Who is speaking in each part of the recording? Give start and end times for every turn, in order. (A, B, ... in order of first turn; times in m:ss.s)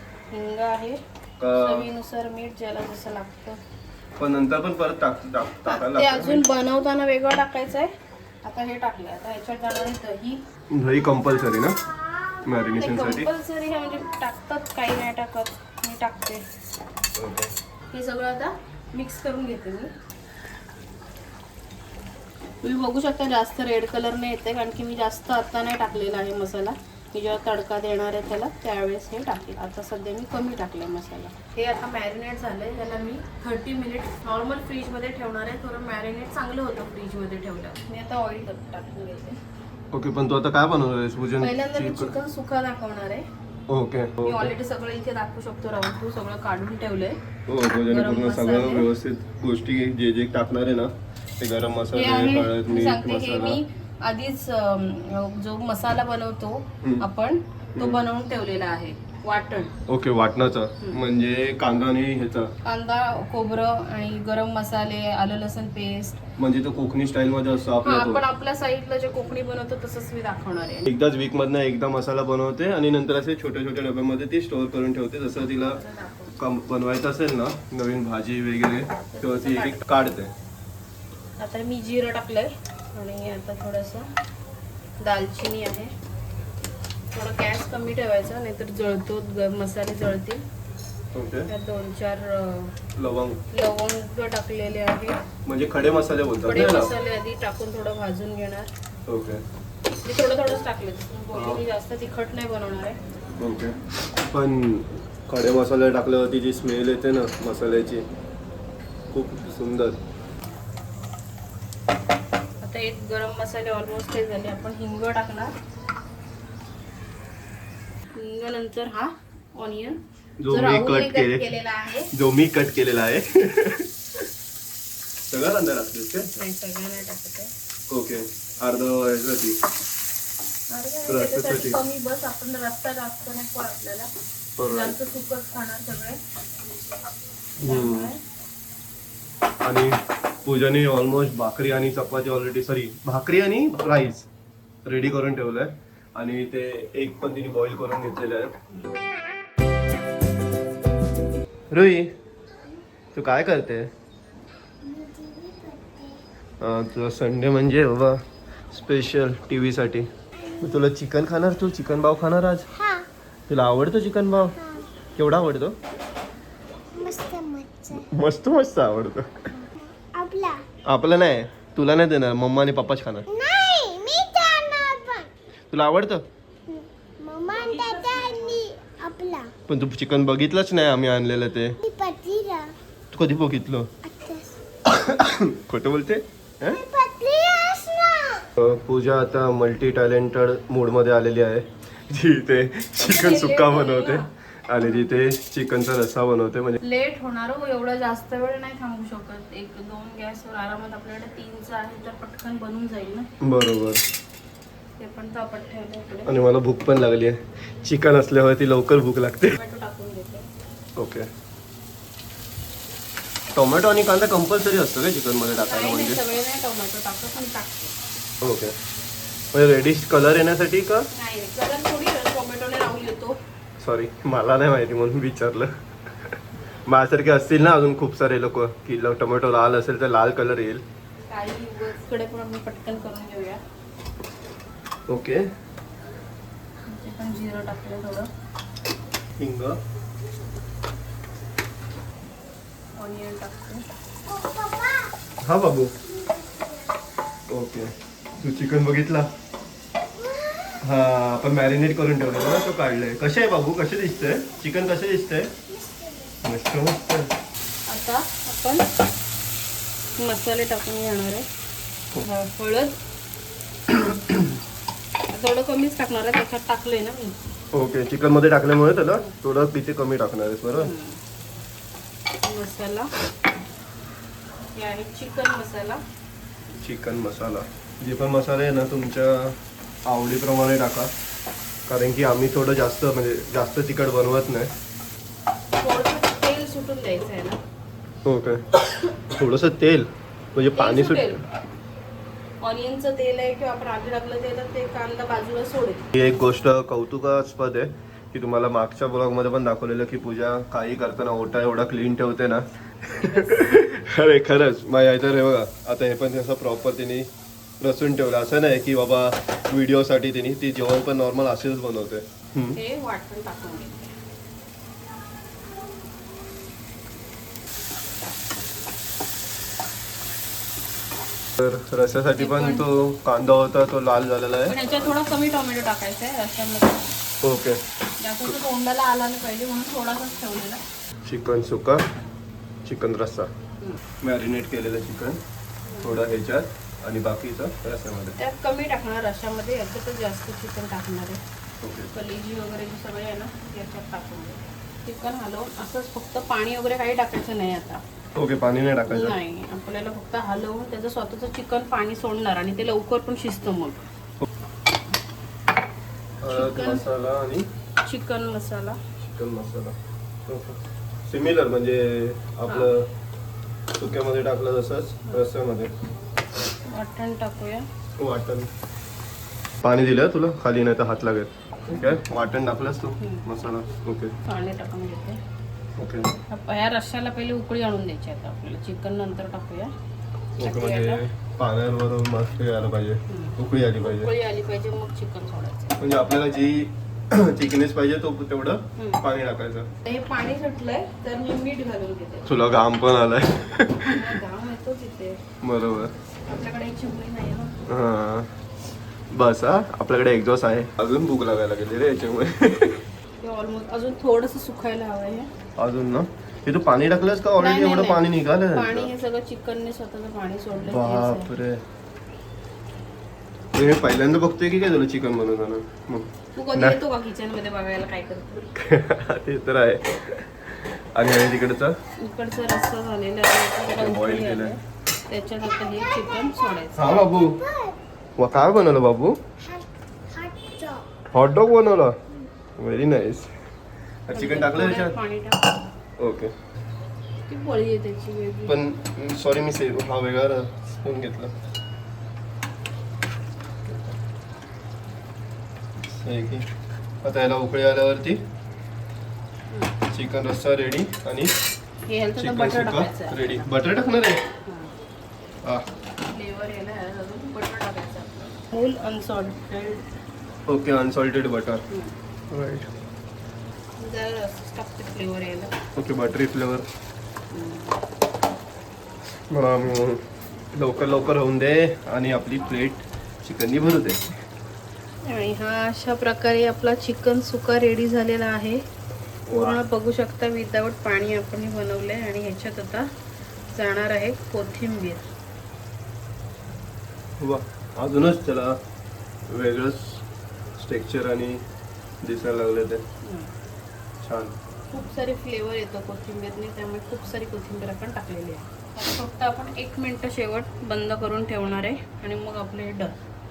0:00.3-0:01.0 A
0:01.4-0:01.9 B
0:01.5-0:03.6 A
0:04.2-0:06.4 B
0:05.6-0:07.9 A
0:08.4-0:10.4 A
0:10.7-0:11.8 B
0:12.4-0:13.3 B
0:12.7-0:16.4 A
0:17.2-0:17.5 B
0:17.9-0:19.9 A
0:22.6-0:39.4 A
0:39.9-0:42.2 B
0:41.4-0:43.2 A
0:43.7-0:44.5 B
0:44.2-0:48.9 A
0:47.5-0:53.6 B
0:51.9-0:59.7 A
0:57.8-0:58.0 B
0:59.9-1:02.5 B
1:02.6-1:06.2 A
1:06.4-1:08.2 B
1:07.8-1:10.9 A
1:10.8-1:15.8 B
1:15.6-1:16.4 A
1:16.4-1:20.3 B
1:19.1-1:19.8 A
1:21.4-1:24.1 A
1:25.0-1:25.9 A
1:27.1-1:30.4 A
1:31.1-1:31.5 B
1:31.5-1:32.8 A
1:33.0-1:33.4 B
1:33.5-1:35.2 A
1:35.4-1:36.9 B
1:36.4-1:38.7 A
1:39.1-1:39.4 B
1:40.0-1:43.0 A
1:41.3-1:41.6 B
1:43.4-1:48.0 B
1:49.1-1:50.0 B
1:52.6-1:55.5 A
1:58.2-2:02.1 A
2:00.4-2:01.5 B
2:02.1-2:03.9 B
2:05.3-2:06.3 B
2:06.3-2:07.5 A
2:07.9-2:09.6 B
2:10.7-2:16.2 A
2:11.1-2:11.8 B
2:14.6-2:15.0 B
2:17.6-2:18.1 B
2:17.6-2:18.2 A
2:19.6-2:24.3 B
2:24.8-2:28.5 B
2:31.7-2:32.1 B
2:33.1-2:33.9 B
2:34.8-2:36.2 C
2:36.6-2:40.1 B
2:40.4-2:40.8 C
2:40.6-2:42.7 B
2:42.7-2:43.1 C
2:43.5-2:44.6 B
2:45.2-2:45.8 B
2:47.0-2:48.1 C
2:47.9-2:49.5 B
2:49.6-2:50.6 C
2:50.8-2:53.3 B
2:53.3-2:55.3 C
2:55.7-2:56.2 B
2:56.7-2:59.5 C
2:57.5-2:58.6 A
2:59.7-3:01.8 B
3:01.8-3:02.7 C
3:03.1-3:03.9 B
3:04.0-3:04.6 C
3:04.9-3:06.8 B
3:06.6-3:08.5 C
3:08.6-3:16.8 B
3:13.0-3:14.3 A
3:14.8-3:15.1 A
3:16.8-3:23.3 A
3:23.4-3:24.0 B
3:25.0-3:26.3 A
3:26.2-3:29.6 B
3:29.5-3:30.5 A
3:31.0-3:31.3 B
3:33.5-3:36.2 B
3:35.5-3:37.9 A
3:38.4-3:38.7 B
3:39.5-3:41.1 B
3:41.1-3:43.4 A
3:43.8-3:50.8 B
3:51.3-3:53.6 A
3:55.1-3:55.4 B
3:56.9-3:58.3 A
3:59.4-3:59.8 B
4:03.0-4:03.8 A
4:04.3-4:05.1 C
4:05.4-4:05.9 B
4:06.2-4:06.8 C
4:07.5-4:09.3 B
4:10.2-4:10.8 C
4:10.8-4:15.5 B
4:15.7-4:16.3 C
4:16.4-4:17.3 B
4:17.9-4:18.8 A
4:20.2-4:21.4 A
4:22.2-4:23.0 A
4:23.9-4:24.5 B
4:25.3-4:27.3 A
4:27.7-4:30.9 B
4:30.8-4:31.2 A
4:32.4-4:33.1 A
4:34.7-4:36.0 A
4:36.8-4:41.1 B
4:41.9-4:44.7 B
4:45.8-4:47.6 A
4:48.2-4:51.3 B
4:50.7-4:51.4 A
4:52.6-4:56.1 A
4:56.1-5:07.3 B
5:03.1-5:03.6 A
5:07.8-5:12.8 B
5:12.7-5:14.1 A
5:21.6-5:24.8 B
5:22.4-5:22.8 A
5:24.7-5:27.1 A
5:27.4-5:27.8 B
5:28.2-5:30.8 A
5:31.2-5:32.0 B
5:32.8-5:33.5 B
5:34.2-5:35.4 B
5:36.0-5:38.4 B
5:38.4-5:41.4 A
5:41.8-5:42.1 B
5:42.1-5:48.0 A
5:48.3-5:49.4 B
5:49.0-5:54.1 A
5:56.4-5:57.7 B
5:56.5-5:57.0 A
5:58.0-5:59.0 A
5:59.2-6:00.0 B
6:00.5-6:03.1 B
6:04.0-6:05.9 B
6:06.8-6:07.8 A
6:08.2-6:08.7 B
6:09.8-6:14.3 B
6:13.2-6:13.4 A
6:14.4-6:15.4 A
6:16.0-6:16.3 B
6:16.5-6:19.9 A
6:20.6-6:24.3 B
6:20.6-6:21.2 A
6:23.3-6:26.0 A
6:26.0-6:29.9 B
6:29.0-6:29.2 A
6:30.0-6:32.6 A
6:32.4-6:34.3 B
6:34.0-6:35.4 A
6:35.6-6:36.1 B
6:36.5-6:37.7 A
6:37.8-6:38.5 B
6:39.3-6:43.0 B
6:43.4-6:45.5 A
6:45.8-6:49.1 B
6:47.6-6:51.5 A
6:50.8-6:51.8 B
6:53.7-6:57.0 B
6:56.6-6:58.7 A
6:58.7-7:01.9 B
7:02.2-7:07.2 A
7:03.9-7:04.8 B
7:05.6-7:08.0 C
7:07.0-7:07.6 B
7:08.4-7:09.4 B
7:09.6-7:11.1 C
7:11.3-7:12.2 B
7:12.8-7:13.5 B
7:14.3-7:15.2 B
7:14.3-7:15.9 A
7:16.2-7:16.5 B
7:17.5-7:18.8 A
7:18.6-7:21.5 B
7:23.8-7:24.2 B
7:26.1-7:26.7 B
7:27.2-7:28.4 B
7:30.1-7:31.5 B
7:32.1-7:33.7 A
7:32.4-7:34.4 B
7:34.6-7:34.9 A
7:36.3-7:40.0 A
7:40.7-7:41.8 B
7:42.5-7:42.9 B
7:44.0-7:45.7 A
7:46.0-7:46.8 B
7:47.5-7:48.0 A
7:49.5-7:50.2 B
7:50.7-7:54.3 B
7:55.2-7:58.8 A
7:59.5-7:59.8 B
7:59.5-8:03.1 A
8:03.7-8:05.3 A
8:07.4-8:08.8 B
8:09.5-8:10.2 B
8:10.8-8:11.6 B
8:12.2-8:13.0 B
8:13.2-8:13.5 A
8:14.2-8:14.6 B
8:14.9-8:23.2 A